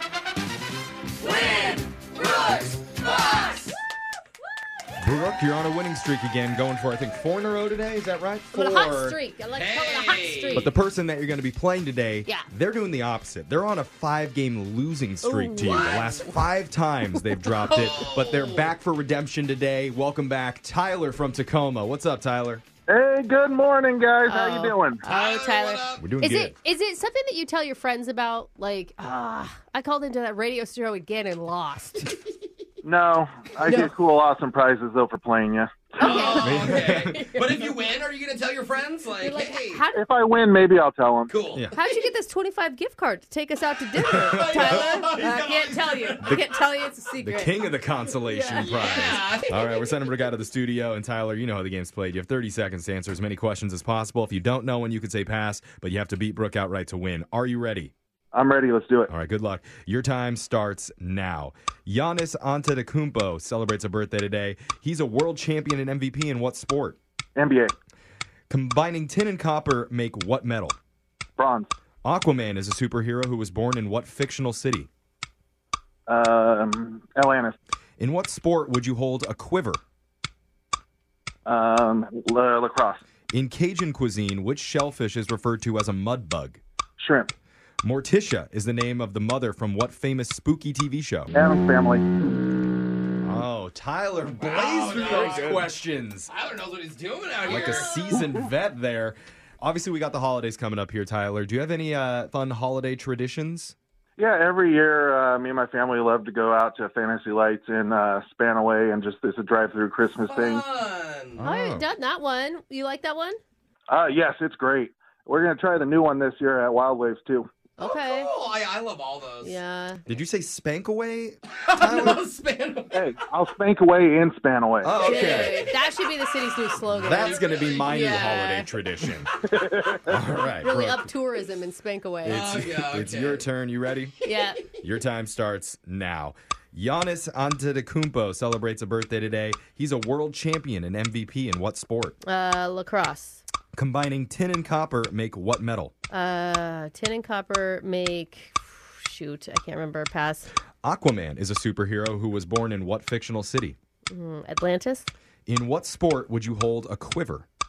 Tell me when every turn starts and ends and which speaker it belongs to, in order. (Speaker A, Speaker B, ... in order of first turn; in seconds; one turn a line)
Speaker A: 1.2-3.7
Speaker B: 5.0-9.2
Speaker C: 8.5-10.8
Speaker A: 9.5-10.7
Speaker B: 10.6-22.6
Speaker C: 15.2-16.1
Speaker A: 15.6-16.4
Speaker C: 17.2-17.6
Speaker A: 17.6-18.7
Speaker D: 22.9-25.0
Speaker C: 24.3-32.2
Speaker A: 25.1-26.1
Speaker B: 26.0-26.6
Speaker D: 32.8-36.6
Speaker C: 33.6-33.9
Speaker A: 36.0-39.8
Speaker C: 36.0-37.6
Speaker B: 36.3-37.3
Speaker C: 39.2-40.1
Speaker D: 40.0-41.4
Speaker A: 41.3-41.7
Speaker B: 41.5-41.8
Speaker C: 41.7-49.2
Speaker A: 44.1-46.3
Speaker B: 44.2-44.7
Speaker B: 47.2-57.9
Speaker A: 48.5-50.1
Speaker D: 58.3-59.1
Speaker B: 59.1-67.0
Speaker D: 67.4-67.7
Speaker B: 68.5-70.8
Speaker D: 71.4-71.7
Speaker B: 72.0-74.9
Speaker D: 76.1-77.6
Speaker B: 78.0-79.8
Speaker D: 81.5-83.0
Speaker B: 83.3-86.6
Speaker D: 87.0-87.3
Speaker B: 87.8-91.3
Speaker D: 91.3-92.0
Speaker B: 93.2-96.3
Speaker A: 94.4-95.7
Speaker A: 96.3-98.2
Speaker B: 97.5-103.8
Speaker D: 104.2-110.6
Speaker A: 110.2-111.5
Speaker B: 111.4-111.9
Speaker C: 111.4-113.4
Speaker D: 113.9-117.5
Speaker C: 117.8-118.3
Speaker A: 117.8-119.6
Speaker C: 119.4-120.0
Speaker B: 120.1-122.2
Speaker A: 121.6-123.1
Speaker D: 122.9-125.5
Speaker B: 124.8-125.7
Speaker C: 125.0-128.8
Speaker A: 125.1-125.9
Speaker B: 126.9-129.3
Speaker A: 127.1-128.3
Speaker D: 129.4-130.2
Speaker B: 130.1-131.1
Speaker C: 130.5-132.4
Speaker A: 132.2-133.5
Speaker B: 132.2-134.2
Speaker C: 134.2-134.7
Speaker B: 134.8-142.2
Speaker C: 142.2-143.4
Speaker B: 143.8-145.9
Speaker C: 146.1-150.5
Speaker B: 150.8-153.8
Speaker C: 154.1-155.1
Speaker B: 155.5-157.5